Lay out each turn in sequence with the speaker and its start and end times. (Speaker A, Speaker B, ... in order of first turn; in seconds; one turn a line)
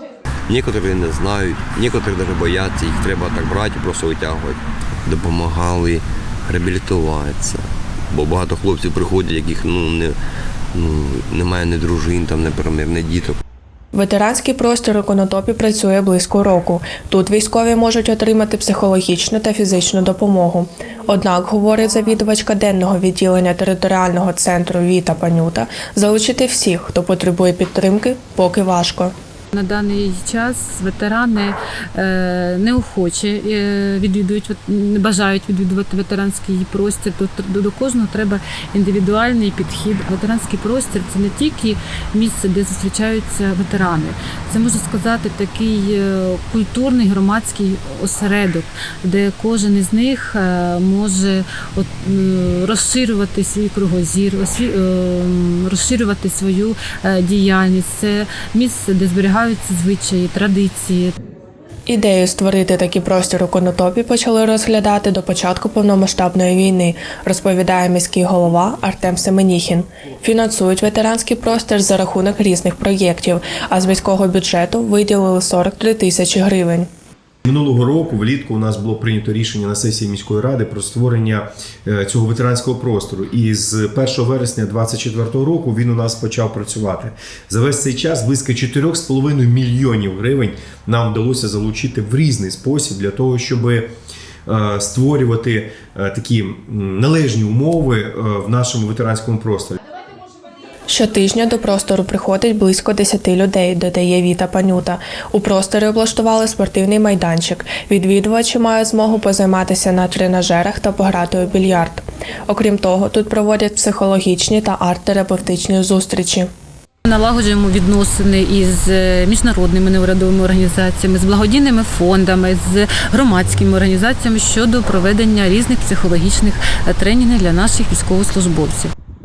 Speaker A: 0.5-10.2
Speaker A: 10.7-13.4
Speaker B: 13.9-29.1
Speaker C: 29.5-61.1
Speaker B: 61.9-76.9
Speaker D: 77.4-93.9
Speaker D: 94.5-99.8
Speaker B: 100.9-116.5
Speaker C: 117.0-128.9